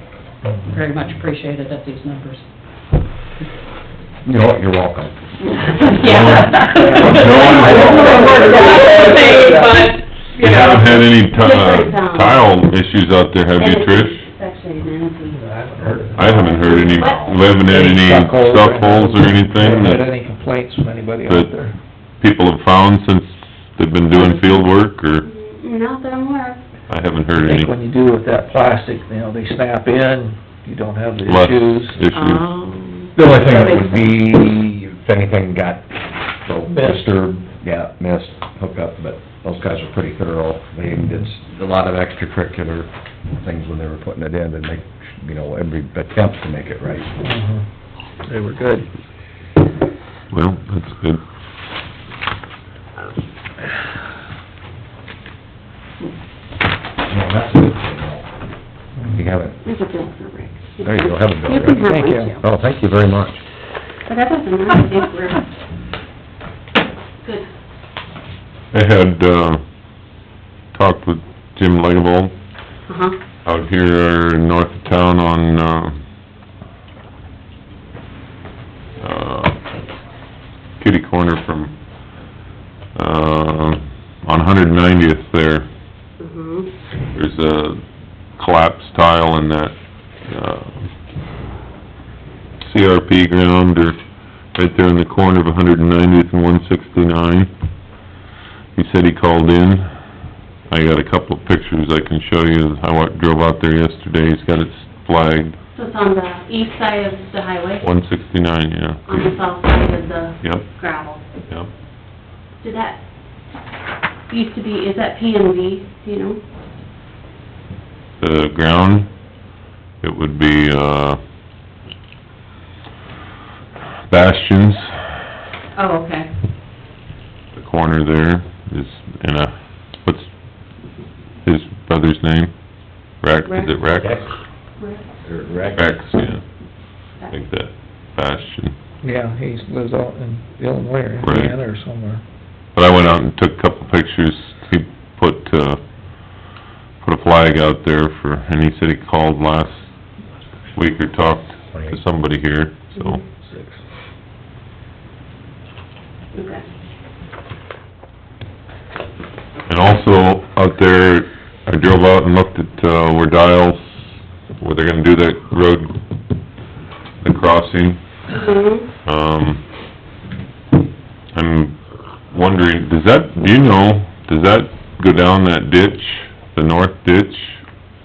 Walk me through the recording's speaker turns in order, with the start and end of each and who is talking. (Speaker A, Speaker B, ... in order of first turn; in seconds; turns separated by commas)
Speaker A: 0.5-0.7, Speaker B: 0.7-2.4, Speaker C: 4.2-6.3, Speaker D: 5.7-9.7, Speaker E: 6.0-8.3, Speaker A: 6.5-9.9, Speaker C: 7.3-7.8, Speaker B: 8.5-11.0, Speaker E: 10.4-14.2, Speaker D: 11.3-12.6, Speaker D: 13.6-15.4, Speaker A: 15.3-16.4, Speaker C: 15.8-17.4, Speaker E: 16.1-20.1, Speaker D: 16.3-17.3, Speaker A: 17.6-21.8, Speaker E: 22.2-25.2, Speaker D: 24.1-24.7, Speaker D: 25.2-26.6, Speaker E: 26.9-27.7, Speaker A: 27.4-32.0, Speaker E: 31.3-32.5, Speaker D: 32.1-34.1, Speaker C: 33.1-47.2, Speaker A: 36.7-37.1, Speaker A: 47.2-47.6, Speaker A: 48.2-48.9, Speaker E: 50.3-51.2, Speaker C: 57.0-58.3, Speaker C: 59.1-59.6, Speaker D: 59.6-62.4, Speaker C: 60.8-63.4, Speaker A: 61.8-62.4, Speaker D: 64.1-65.5, Speaker E: 68.7-69.6, Speaker E: 70.7-72.3, Speaker D: 72.9-73.2, Speaker E: 73.5-76.0, Speaker E: 79.0-79.6, Speaker E: 80.8-81.7, Speaker E: 83.0-85.7, Speaker D: 86.2-86.7, Speaker E: 87.2-87.8, Speaker E: 88.4-89.7, Speaker E: 90.3-90.9, Speaker E: 92.6-94.0, Speaker E: 94.5-97.5, Speaker E: 98.8-99.9, Speaker E: 100.7-105.6, Speaker D: 105.7-107.8, Speaker E: 107.8-109.4, Speaker D: 109.1-111.3, Speaker E: 110.4-110.7, Speaker D: 112.6-113.0, Speaker D: 114.3-116.4, Speaker E: 118.2-119.1, Speaker E: 120.0-121.2, Speaker E: 124.1-124.9, Speaker D: 125.8-126.3, Speaker E: 127.5-129.5, Speaker E: 130.0-130.3, Speaker E: 131.4-132.5, Speaker E: 133.2-134.3, Speaker D: 133.4-133.8, Speaker C: 134.0-134.3, Speaker D: 134.8-135.0, Speaker C: 135.2-136.0, Speaker E: 135.7-136.4, Speaker E: 137.3-138.7, Speaker A: 139.0-142.2, Speaker E: 141.2-141.6, Speaker E: 142.8-145.8, Speaker E: 147.0-149.8, Speaker E: 150.8-153.2, Speaker A: 153.4-153.8, Speaker D: 156.3-156.6, Speaker E: 159.7-163.9, Speaker E: 164.6-165.9, Speaker E: 167.2-168.0, Speaker D: 168.3-168.9, Speaker E: 169.0-169.6, Speaker E: 171.3-171.8, Speaker E: 172.3-177.6